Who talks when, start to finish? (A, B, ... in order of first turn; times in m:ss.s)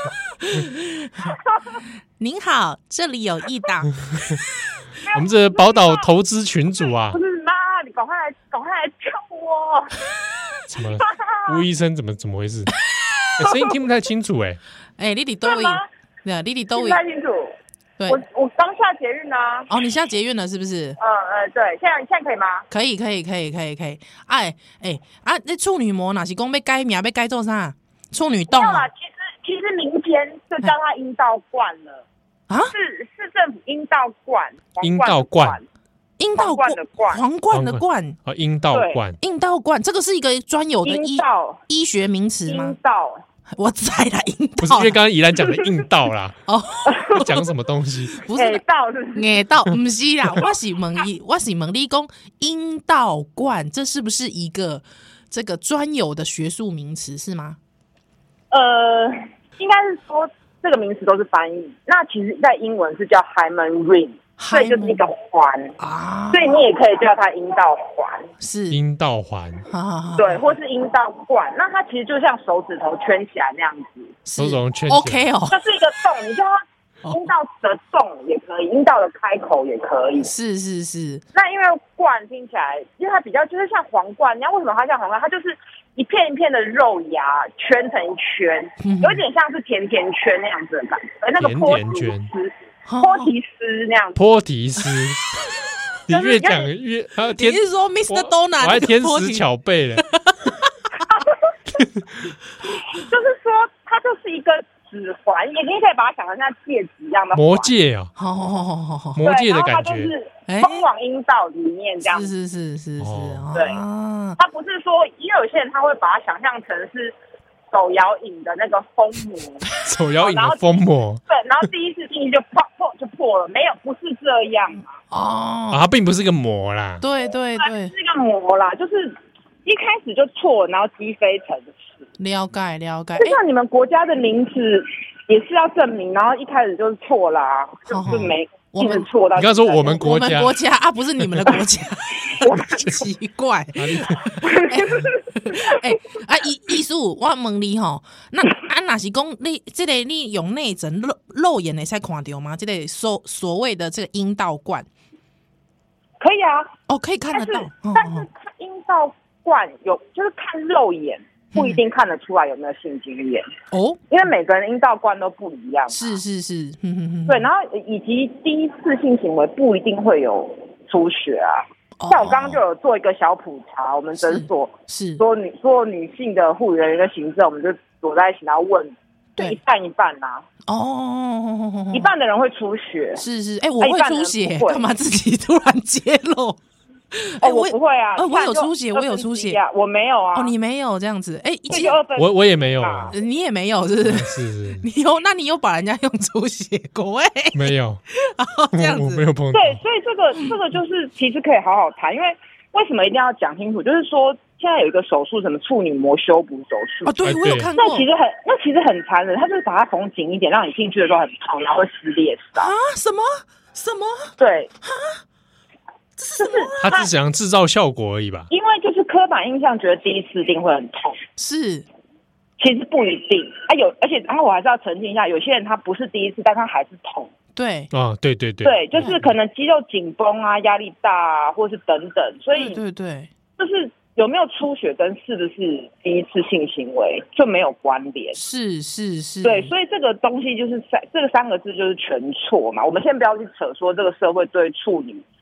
0:00.4-0:01.3 A
0:02.2-0:04.0 A
0:05.0-0:06.1 B
0:05.1-0:07.2 C
0:07.1-0:10.0 B
0:10.7-0:12.7 C
0:11.0-0:11.6 B
0:13.4-0:14.6 C
0:15.0-0:17.0 A
0:15.4-0:15.9 B
0:16.8-0:17.6 B
0:18.1-0:19.7 B
0:19.7-0:21.0 A
0:21.0-0:22.7 B
0:22.7-0:28.9 A
0:28.5-0:32.0 B
0:32.5-0:32.7 A
0:32.7-0:35.6 B
0:34.8-0:35.6 C
0:36.2-0:38.2 A
0:36.4-0:37.2 B
0:37.5-0:39.2 C
0:38.7-0:39.0 B
0:39.2-0:42.8 A
0:40.8-0:41.6 B
0:42.5-0:43.2 B
0:43.5-0:45.0 A
0:44.6-0:46.4 C
0:46.5-0:47.5 A
0:46.9-0:47.2 B
0:47.1-0:48.2 C
0:48.1-0:48.6 A
0:48.3-0:49.3 B
0:49.2-0:57.6 A
0:58.5-1:05.8 B
1:04.4-1:05.0 A
1:05.8-1:06.6 A
1:06.3-1:08.3 B
1:08.4-1:08.8 A
1:08.7-1:09.7 C
1:09.7-1:10.5 A
1:10.2-1:14.2 B
1:14.2-1:15.6 A
1:14.4-1:15.2 C
1:15.5-1:20.3 B
1:20.2-1:21.2 A
1:21.3-1:34.2 B
1:28.8-1:29.2 A
1:31.4-1:32.3 C
1:32.9-1:33.3 A
1:34.2-1:35.2 C
1:36.1-1:40.1 C
1:36.1-1:36.7 B
1:37.3-1:39.4 A
1:40.0-1:41.0 A
1:41.8-1:42.1 C
1:42.8-1:47.7 B
1:47.3-1:48.1 C
1:48.2-1:49.2 A
1:49.2-1:50.1 C
1:49.2-1:52.3 B
1:50.5-1:50.9 A
1:52.0-1:54.4 A
1:53.0-1:53.5 C
1:53.5-1:53.8 B
1:54.4-1:57.2 B
1:57.7-2:00.8 B
1:59.8-2:01.2 C
2:01.3-2:04.9 B
2:05.1-2:05.8 A
2:05.7-2:07.0 C
2:07.0-2:07.9 A
2:07.6-2:11.9 B
2:12.2-2:13.4 A
2:13.2-2:20.0 B
2:17.9-2:19.1 A
2:19.4-2:20.6 C
2:19.8-2:34.9 A
2:22.4-2:23.0 B
2:23.8-2:24.3 C
2:24.4-2:25.8 B
2:36.2-2:36.7 B
2:36.9-2:38.3 A
2:37.3-2:43.5 B
2:41.5-2:41.8 A
2:43.7-2:44.0 A
2:44.1-2:46.2 B
2:45.9-2:47.5 A
2:47.3-3:00.4 B
2:52.0-2:52.6 A
2:54.2-2:55.2 A
3:00.7-3:02.1 A
3:01.9-3:03.2 B
3:03.2-3:06.6 A
3:03.8-3:04.8 B
3:07.1-3:09.6 A
3:07.4-3:10.5 B
3:10.4-3:12.0 A
3:11.7-3:13.2 B
3:12.2-3:13.2 C
3:13.1-3:19.3 A
3:14.0-3:14.8 C
3:17.5-3:18.0 C
3:18.7-3:19.8 C
3:19.5-3:27.2 B
3:27.0-3:28.1 A
3:27.2-3:27.7 C
3:27.8-3:32.7 B
3:32.6-3:34.3 A
3:34.4-3:34.7 B
3:34.8-3:35.2 A
3:36.2-3:36.8 A
3:36.3-3:37.1 B
3:36.8-3:38.5 C
3:38.5-3:41.2 B
3:41.4-3:41.9 A
3:42.6-3:47.3 B
3:47.6-3:47.9 A
3:47.9-3:49.3 C
3:48.6-3:52.8 B
3:52.6-3:53.3 A
3:53.6-3:58.4 B
3:58.3-3:59.7 A
3:59.4-4:05.2 B